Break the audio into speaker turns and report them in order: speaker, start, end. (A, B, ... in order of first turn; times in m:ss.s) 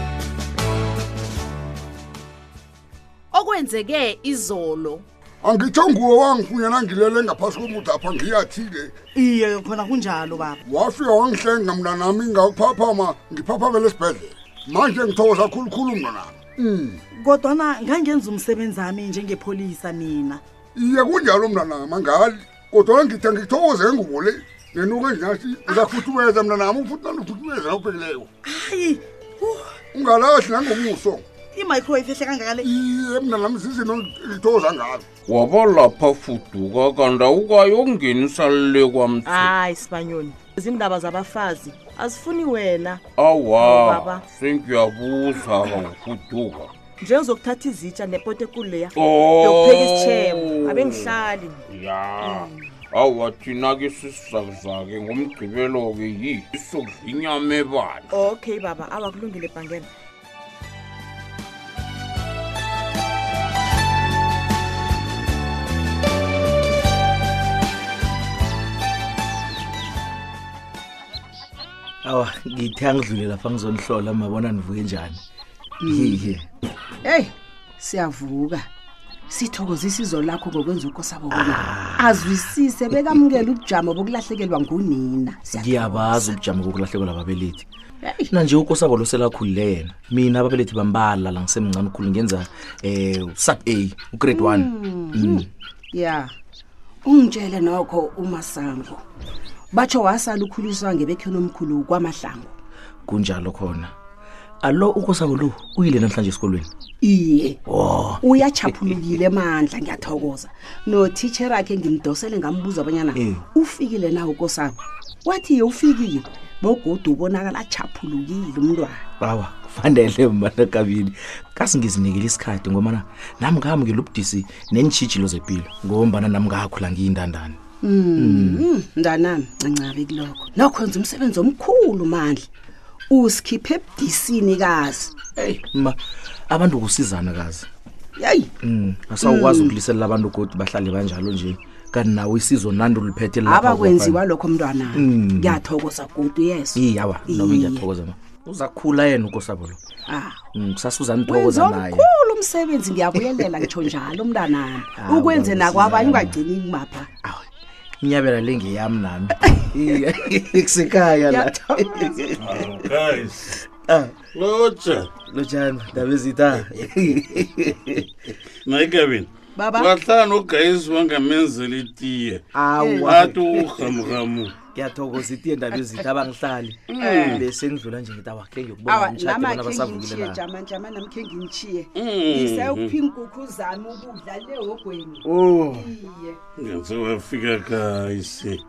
0:03.3-0:05.0 A
0:05.4-0:08.9 B
0:09.2-0:10.6 C
0:10.7-0:17.0 B
0:17.2-0:20.4 C
0:20.8-0:28.3 B
0:25.7-0:26.1 C
0:28.4-0:29.7 C
0:29.9-0:31.2 B
0:30.7-0:31.0 C
0:31.6-0:32.7 C
0:32.6-0:35.0 B
0:35.3-0:39.5 D
0:39.3-0:43.0 A
0:43.2-0:46.7 D
0:43.6-0:44.2 A
0:47.0-0:51.7 A
0:49.0-0:51.1 D
0:51.7-0:52.4 D
0:52.2-0:52.5 A
0:52.9-0:58.1 D
0:58.1-0:59.9 A
1:12.0-1:15.2 E
1:15.8-1:16.2 F
1:15.9-1:16.5 E
1:17.0-1:18.7 F
1:19.3-1:26.4 F
1:21.3-1:22.5 E
1:25.5-1:35.5 E
1:34.3-1:36.3 F
1:37.0-1:39.0 F
1:39.7-1:42.5 F
1:43.1-1:43.9 E
1:44.6-1:46.7 E
1:47.0-1:47.6 F
1:47.7-1:49.0 E
1:48.2-1:59.0 F
1:53.2-1:53.4 E
1:59.2-2:07.6 E
2:07.8-2:12.5 F
2:08.2-2:08.7 E
2:13.1-2:15.2 F
2:15.4-2:17.7 E
2:18.2-2:18.5 F
2:18.6-2:24.2 E
2:19.2-2:19.8 F
2:23.4-2:27.9 F
2:24.9-2:25.6 E
2:26.8-2:29.8 E
2:30.1-2:30.5 F
2:30.5-2:32.1 E
2:31.3-2:37.1 F
2:33.2-2:33.7 E
2:34.9-2:36.4 E
2:37.2-2:37.5 E
2:38.0-2:42.8 E
2:41.0-2:42.3 F
2:42.4-2:43.6 G
2:43.5-2:44.2 E
2:44.3-2:45.1 G
2:45.2-2:48.0 E
2:48.6-2:52.4 G
2:49.6-2:49.9 F
2:52.5-3:00.4 E
2:52.7-2:53.0 F
2:53.0-2:54.6 G
2:56.9-2:57.4 G
2:57.0-2:57.4 F
2:58.8-3:06.4 F
3:02.0-3:02.9 G
3:06.6-3:08.6 G